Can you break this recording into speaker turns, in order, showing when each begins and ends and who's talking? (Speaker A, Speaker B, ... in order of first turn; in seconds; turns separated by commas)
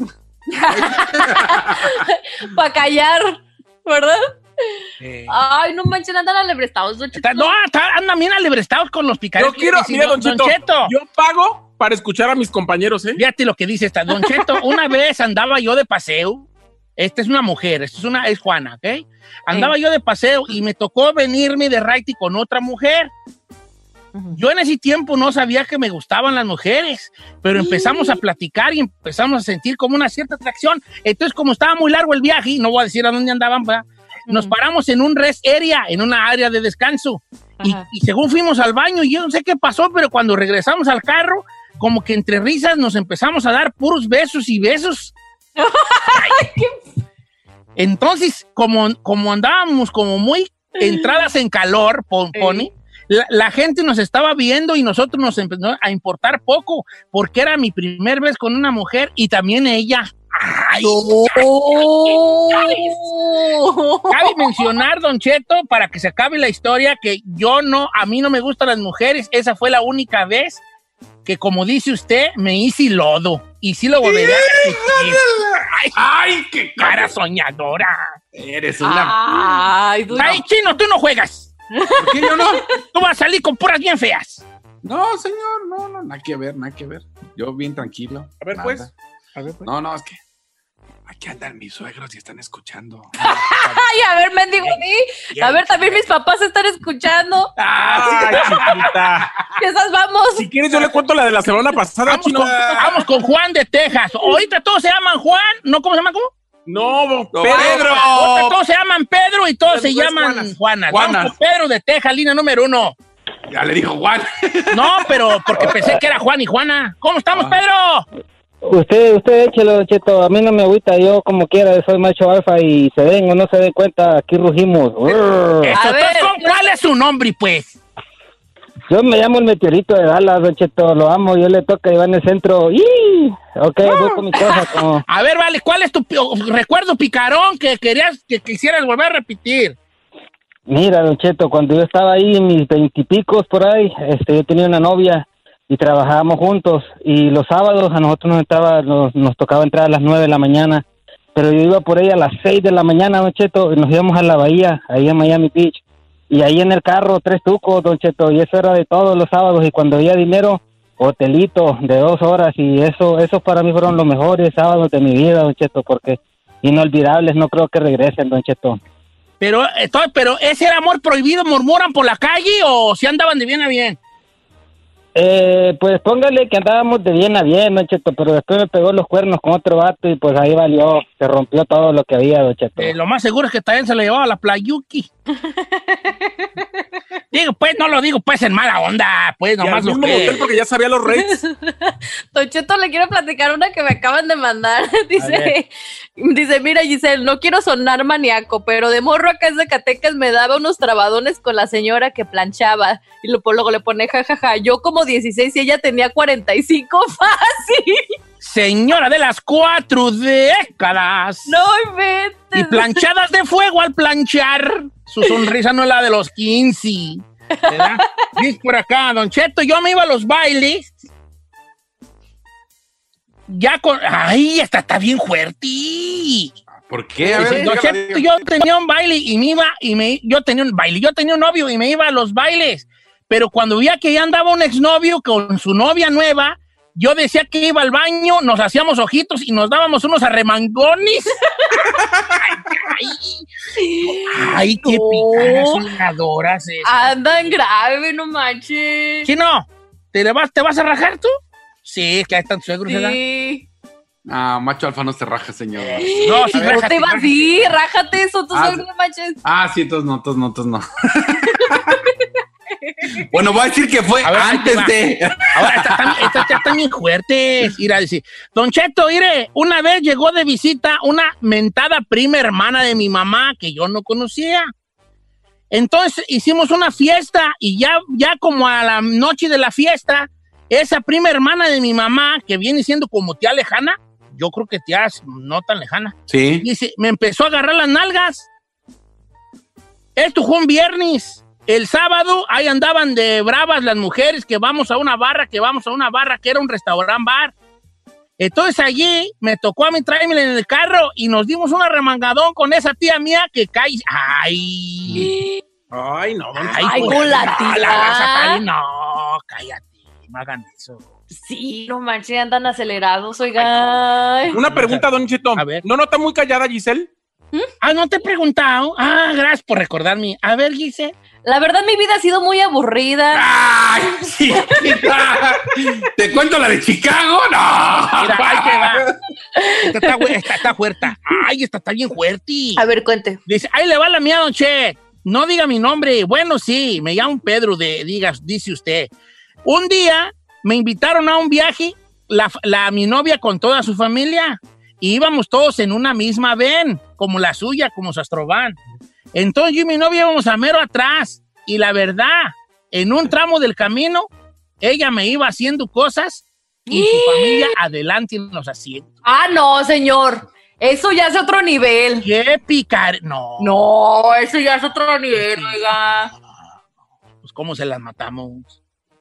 Speaker A: 0.6-4.2, Speaker B: 5.0-5.3, Speaker A: 5.3-7.5, Speaker B: 7.2-10.9, Speaker C: 9.4-13.2, Speaker B: 13.2-23.1, Speaker A: 14.1-14.9, Speaker A: 19.5-19.8, Speaker A: 24.2-24.4, Speaker B: 24.3-45.1, Speaker A: 27.6-28.2, Speaker A: 34.3-34.6, Speaker A: 37.6-37.9, Speaker A: 45.6-46.8, Speaker B: 47.8-63.0, Speaker A: 50.8-51.3, Speaker A: 52.3-52.7, Speaker A: 60.8-64.7, Speaker B: 64.1-70.6, Speaker B: 71.3-75.2, Speaker D: 74.0-77.1, Speaker B: 76.8-78.1, Speaker D: 78.3-79.5, Speaker A: 78.8-80.4, Speaker B: 80.2-81.5, Speaker A: 81.8-82.7, Speaker D: 82.0-82.7, Speaker B: 82.9-84.4, Speaker D: 84.8-88.9, Speaker C: 88.4-88.9, Speaker B: 89.4-89.7, Speaker D: 89.7-90.2, Speaker D: 91.1-93.1, Speaker A: 93.2-97.5, Speaker B: 93.4-93.8, Speaker B: 95.4-96.0, Speaker C: 97.8-99.2, Speaker B: 97.8-98.8, Speaker A: 99.6-100.5, Speaker C: 100.4-102.8, Speaker B: 102.1-106.3, Speaker C: 106.7-107.8, Speaker D: 107.3-108.5, Speaker A: 107.5-108.0, Speaker B: 107.6-113.0, Speaker C: 109.7-110.5, Speaker D: 110.9-111.3, Speaker D: 113.5-115.7, Speaker B: 114.7-118.0, Speaker D: 117.3-117.6, Speaker E: 118.7-125.8, Speaker B: 125.6-127.8, Speaker A: 125.7-126.6, Speaker E: 128.9-135.0, Speaker A: 133.9-134.8, Speaker B: 135.1-139.8, Speaker E: 140.7-150.8, Speaker E: 151.3-168.8, Speaker B: 169.4-174.0, Speaker E: 175.2-182.9, Speaker B: 182.8-185.1, Speaker A: 185.3-186.5, Speaker B: 187.3-190.4, Speaker C: 189.6-191.4, Speaker A: 191.1-208.1, Speaker B: 195.2-195.5, Speaker B: 208.4-211.6, Speaker A: 211.5-213.0, Speaker B: 212.5-220.9, Speaker A: 215.2-215.5, Speaker A: 217.5-218.3, Speaker B: 223.5-226.5, Speaker D: 226.9-228.4, Speaker B: 227.2-243.5, Speaker A: 243.8-245.9, Speaker B: 244.1-247.2, Speaker A: 246.8-249.3, Speaker B: 249.2-251.3, Speaker B: 251.8-253.2, Speaker A: 252.9-253.7, Speaker D: 254.3-256.2, Speaker A: 255.9-259.4, Speaker B: 256.2-257.5, Speaker D: 258.5-258.8, Speaker D: 259.4-261.8, Speaker D: 263.3-266.6, Speaker B: 264.2-264.9, Speaker B: 265.6-274.7, Speaker B: 275.7-288.5, Speaker D: 286.3-286.7, Speaker B: 290.2-297.5, Speaker B: 298.4-305.3, Speaker A: 305.2-305.6, Speaker C: 305.9-307.9, Speaker B: 306.6-311.1, Speaker A: 306.8-308.6, Speaker A: 311.3-314.6, Speaker C: 314.5-317.1, Speaker B: 314.6-315.1, Speaker B: 315.6-315.8, Speaker B: 317.8-321.1, Speaker A: 321.4-323.4, Speaker D: 323.3-325.6, Speaker A: 324.7-325.0, Speaker D: 326.2-329.1, Speaker B: 328.2-329.0, Speaker A: 329.6-330.2, Speaker B: 329.9-332.8, Speaker A: 332.8-333.4, Speaker B: 333.5-339.1, Speaker B: 339.6-348.8, Speaker B: 349.3-354.3, Speaker B: 354.8-359.1, Speaker A: 356.9-357.8, Speaker A: 359.2-362.3, Speaker B: 362.2-363.8, Speaker A: 363.6-366.3, Speaker B: 365.3-365.8, Speaker B: 367.4-368.8